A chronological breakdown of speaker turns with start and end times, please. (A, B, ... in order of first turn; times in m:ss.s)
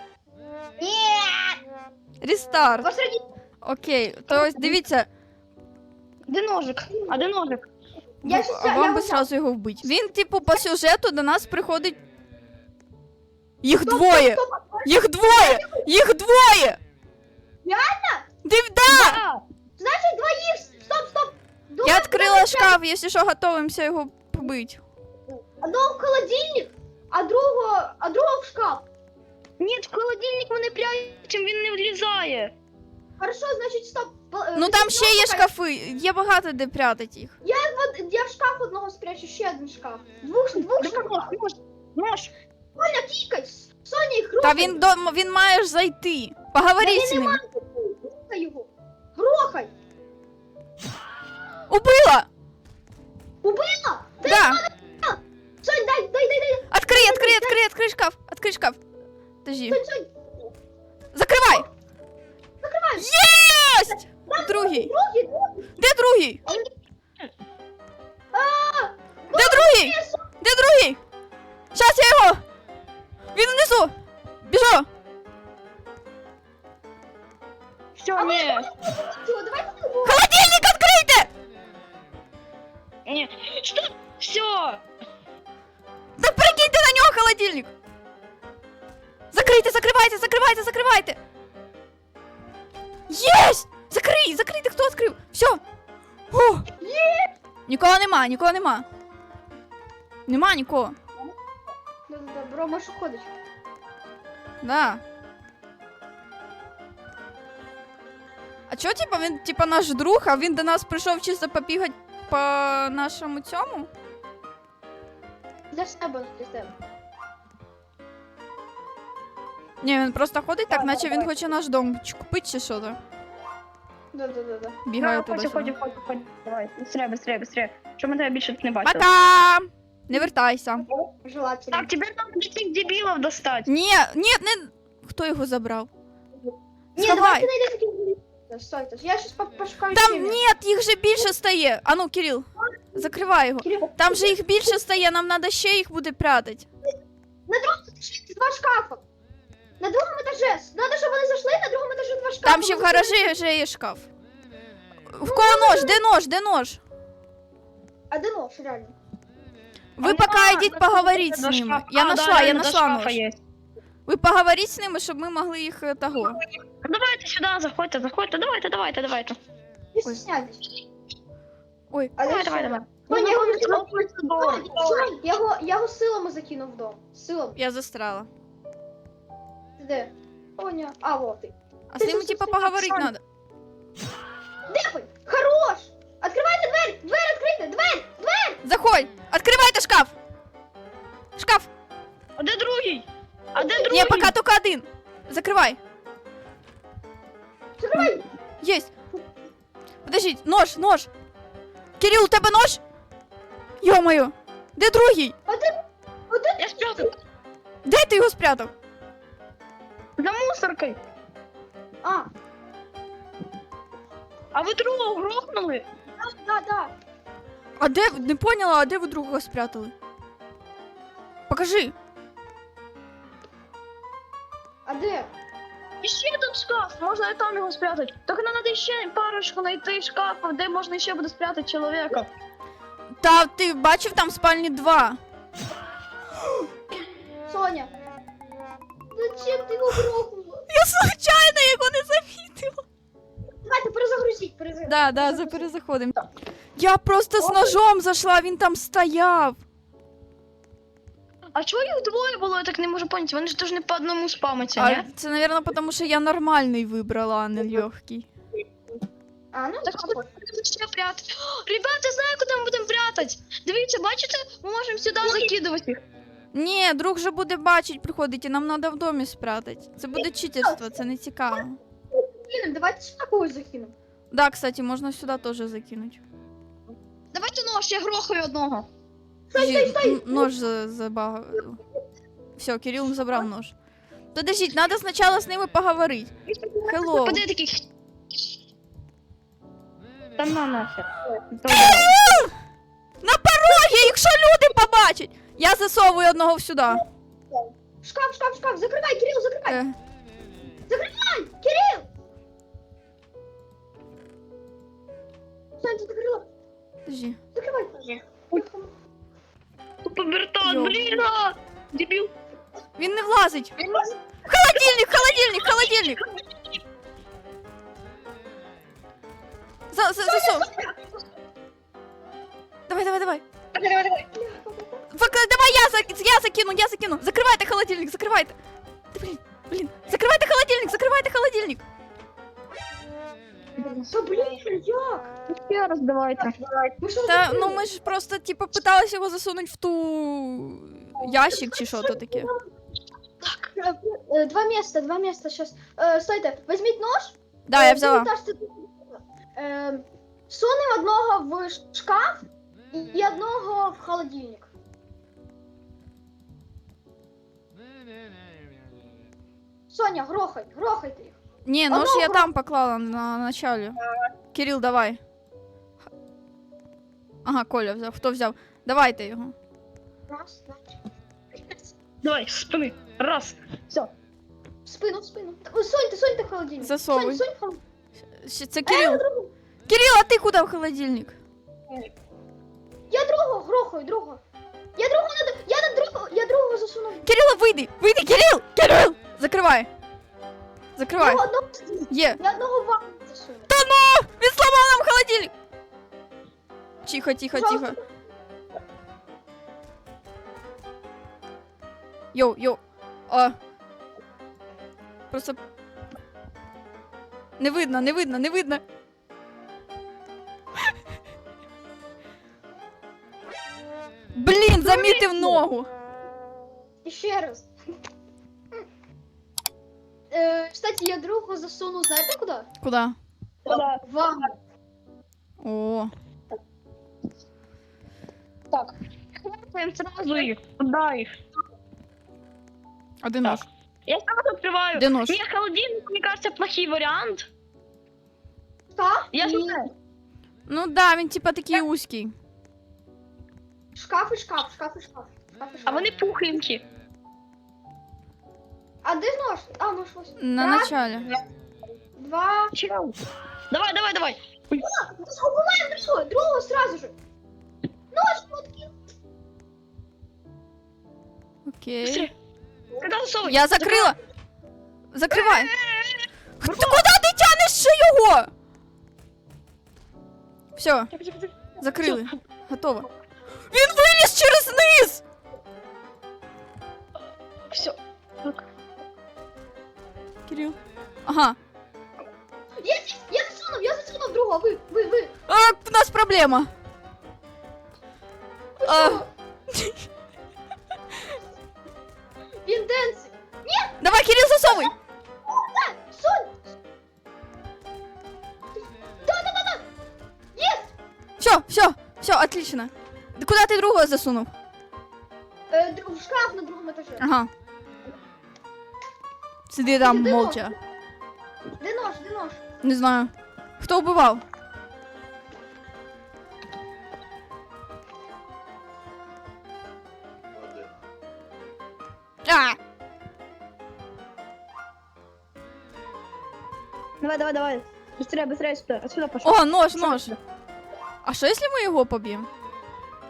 0:00.8-0:01.6 A
0:02.2-0:02.9 B
0:02.8-0:03.2 A
0:03.6-0:05.1 B
0:06.3-0:07.6 C
0:06.9-0:07.3 A
0:08.2-0:09.2 A
0:08.2-0:12.0 B
0:13.6-0:16.8 B
0:13.8-0:15.8 A
0:17.6-0:18.2 A
0:18.4-0:19.2 B
0:18.9-0:19.4 C
0:19.8-0:22.8 A
0:21.8-0:24.8 B
0:25.6-0:28.8 A
0:29.6-0:32.5 C
0:33.2-0:35.5 A
0:34.6-0:37.3 B
0:37.4-0:41.3 A
0:40.6-0:42.3 C
0:42.8-0:44.8 A
0:44.4-0:47.4 B
0:46.8-0:49.7 A
0:51.7-0:52.3 B
0:53.4-0:57.6 A
0:54.2-0:54.6 B
0:56.7-0:58.8 B
0:59.4-0:59.8 B
0:59.7-1:00.1 A
1:01.1-1:01.7 B
1:02.6-1:03.2 A
1:03.0-1:04.9 B
1:04.3-1:05.7 A
1:05.8-1:06.4 B
1:08.3-1:10.2 A
1:09.3-1:11.0 B
1:11.7-1:12.4 B
1:13.3-1:13.9 B
1:14.4-1:14.9 B
1:18.0-1:18.7 C
1:18.2-1:20.2 A
1:20.0-1:21.3 B
1:23.1-1:24.8 C
1:26.2-1:27.7 B
1:29.3-1:31.2 B
1:33.1-1:35.6 B
1:36.3-1:36.6 B
1:36.8-1:37.3 A
1:37.7-1:38.8 B
1:40.3-1:41.0 B
1:42.1-1:43.3 A
1:44.6-1:45.0 B
1:48.7-1:53.9 B
1:55.7-1:56.7 A
1:59.8-2:03.0 B
2:00.7-2:01.3 A
2:04.1-2:04.8 A
2:04.8-2:05.7 B
2:05.0-2:09.1 C
2:08.8-2:10.8 B
2:11.2-2:11.9 A
2:11.7-2:13.7 C
2:13.6-2:15.9 B
2:17.0-2:20.4 A
2:17.0-2:17.5 B
2:19.9-2:26.7 B
2:23.6-2:24.7 A
2:27.5-2:29.0 A
2:29.8-2:33.3 A
2:32.4-2:34.1 B
2:35.1-2:36.8 B
2:35.2-2:36.0 A
2:38.1-2:38.9 A
2:40.0-2:43.2 B
2:40.0-2:43.4 C
2:44.1-2:46.4 B
2:46.8-2:49.4 C
2:49.9-2:50.6 A
2:52.2-2:57.6 A
2:52.2-2:55.1 C
2:57.6-2:58.3 B
2:59.8-3:03.0 A
3:01.9-3:03.2 B
3:04.7-3:08.6 A
3:08.6-3:10.1 B
3:11.4-3:11.7 B
3:12.4-3:14.3 C
3:13.6-3:14.1 A
3:13.9-3:15.8 B
3:17.8-3:18.2 A
3:18.6-3:18.9 B
3:20.0-3:21.1 B
3:22.0-3:22.8 B
3:23.8-3:25.3 B
3:25.5-3:25.8 A
3:26.3-3:27.1 A
3:26.6-3:27.1 C
3:27.8-3:28.7 B
3:30.2-3:31.0 C
3:32.0-3:32.3 A
3:34.5-3:35.8 C
3:36.2-3:36.9 A
3:37.8-3:39.9 B
3:41.5-3:41.9 B
3:44.8-3:45.3 A
3:46.0-3:52.3 C
3:53.2-3:55.2 B
3:57.5-3:57.9 A
3:59.1-4:00.6 A
4:00.7-4:02.8 B
4:03.6-4:05.7 A
4:04.9-4:06.1 B
4:06.8-4:09.6 B
4:07.4-4:07.7 C
4:11.6-4:15.1 C
4:14.8-4:18.3 B
4:19.5-4:20.2 A
4:19.8-4:26.0 C
4:26.5-4:31.8 B
4:30.2-4:30.8 A
4:32.1-4:33.9 A
4:34.3-4:36.2 B
4:37.3-4:38.9 C
4:39.5-4:40.5 A
4:39.6-4:41.8 B
4:42.6-4:43.7 B
4:44.3-4:46.3 B
4:46.5-4:47.8 C
4:46.8-4:47.4 B
4:50.4-4:52.2 C
4:51.7-4:52.5 B
4:53.2-4:57.0 B
4:57.5-4:59.8 A
4:59.7-4:59.9 B
5:00.9-5:02.1 A
5:05.8-5:06.4 A
5:07.1-5:07.4 B
5:07.6-5:08.9 A
5:10.0-5:12.3 C
5:10.6-5:11.2 B
5:13.0-5:13.7 B
5:13.8-5:14.1 C
5:14.5-5:16.2 B
5:19.9-5:20.7 B
5:20.2-5:20.9 A
5:22.9-5:23.4 B
5:23.7-5:24.3 C
5:24.3-5:25.1 A
5:25.1-5:28.6 B
5:29.1-5:31.8 B
5:33.8-5:34.6 C
5:34.1-5:35.3 A
5:35.5-5:36.6 C
5:37.0-5:37.8 A
5:37.2-5:42.5 B
5:41.5-5:42.6 A
5:43.8-5:54.7 A
5:47.7-5:48.3 B
5:59.9-6:01.4 A
6:01.6-6:04.0 B
6:01.9-6:02.5 A
6:04.5-6:05.2 B
6:07.4-6:09.5 B
6:10.3-6:11.0 A
6:12.2-6:14.1 C
6:14.8-6:17.8 A
6:16.8-6:17.4 B
6:18.4-6:19.2 B
6:18.8-6:19.5 A
6:19.9-6:21.4 B
6:23.1-6:24.4 A
6:25.0-6:27.2 A
6:27.2-6:29.9 B
6:31.0-6:31.4 B
6:31.2-6:33.7 A
6:32.1-6:32.4 B
6:33.7-6:35.5 B
6:37.0-6:38.0 B
6:37.5-6:38.0 A
6:42.3-6:43.6 B
6:45.3-6:45.6 B
6:47.6-6:48.8 B
6:54.3-6:55.9 B
6:54.8-6:55.6 C
6:57.0-6:57.7 A
7:00.3-7:02.7 A
7:02.8-7:03.2 B
7:03.7-7:04.0 C
7:03.7-7:04.5 A
7:05.6-7:06.1 B
7:08.7-7:11.4 C
7:13.2-7:13.7 B
7:13.4-7:17.5 C
7:14.9-7:15.4 B
7:19.0-7:19.8 A
7:19.3-7:19.9 C
7:20.7-7:22.3 B
7:24.0-7:26.1 A
7:25.8-7:26.8 C
7:29.0-7:30.9 A
7:30.4-7:31.3 B
7:32.2-7:32.7 A
7:32.7-7:33.2 C
7:33.7-7:34.8 C
7:34.8-7:37.1 A
7:38.1-7:38.9 A
7:41.7-7:42.3 B
7:42.0-7:42.3 C
7:42.9-7:44.2 C
7:43.4-7:44.2 B
7:45.1-7:45.7 B
7:45.3-7:47.0 C
7:46.6-7:48.5 B
7:50.8-7:51.1 B
7:51.1-7:52.3 C
7:51.8-7:53.1 B
7:53.7-7:55.2 B
7:57.7-7:58.6 C
8:00.5-8:01.6 B
8:02.8-8:05.3 A
8:05.5-8:06.7 B
8:08.8-8:09.3 A
8:08.8-8:10.0 B
8:12.7-8:14.0 A
8:14.0-8:14.9 B
8:15.5-8:16.5 A
8:19.2-8:19.8 A
8:20.6-8:20.9 A
8:21.4-8:24.5 B
8:25.7-8:27.2 A
8:27.2-8:27.5 B
8:29.7-8:30.8 B
8:29.8-8:30.7 A
8:31.8-8:32.6 A
8:32.8-8:34.4 B
8:42.4-8:42.8 B
8:47.2-8:50.4 C
8:49.4-8:50.3 B
8:51.2-8:52.5 B